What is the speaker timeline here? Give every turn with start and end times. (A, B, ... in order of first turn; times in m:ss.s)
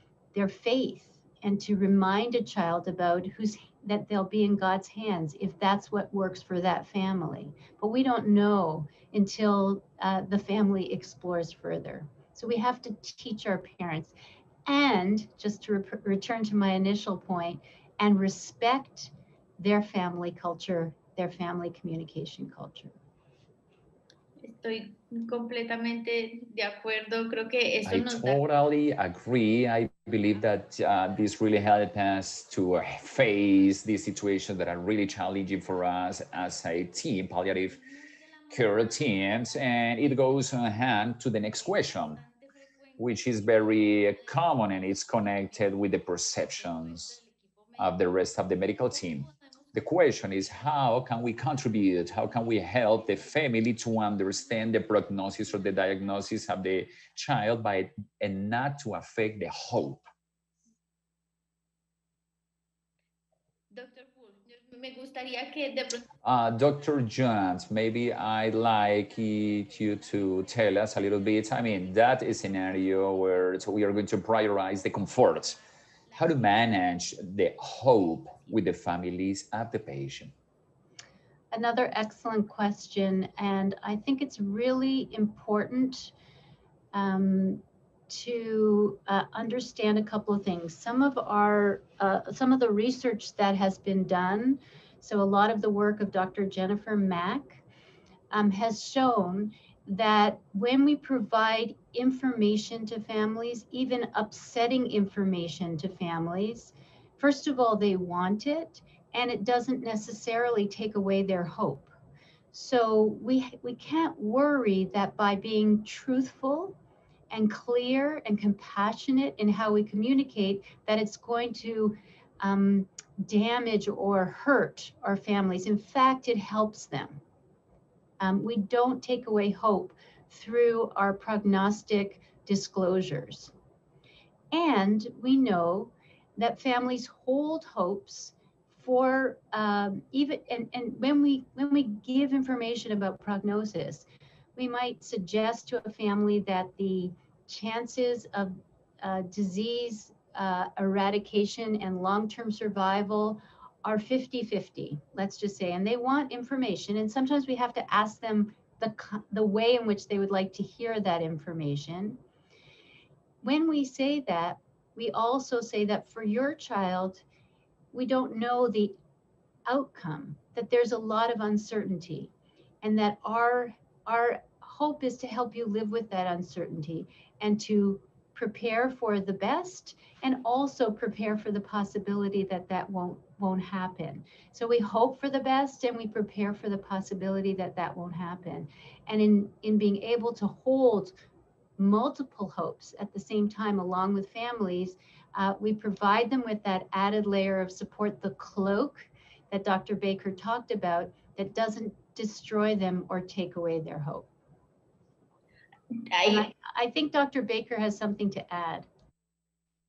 0:00.3-0:14.1 A
0:14.7-0:23.0 A
0:24.4-0:28.4 B
0:27.8-0:37.8 C
0:38.5-0:42.2 C
0:43.0-0:47.2 C
0:47.8-1:00.0 C
1:03.7-1:06.1 B
1:06.2-1:15.6 C
1:16.1-1:20.3 C
1:21.5-1:26.1 A
1:26.9-1:37.6 A
1:38.3-1:51.9 A
1:52.5-1:56.8 A
1:57.3-2:07.2 A
2:08.2-2:13.5 A
2:14.5-2:42.2 A
2:43.4-2:47.2 A
2:47.9-2:49.0 A
2:49.7-2:52.3 A
2:52.8-3:11.2 A
3:11.8-3:24.3 A
3:26.1-3:26.5 B
3:26.3-3:28.9 A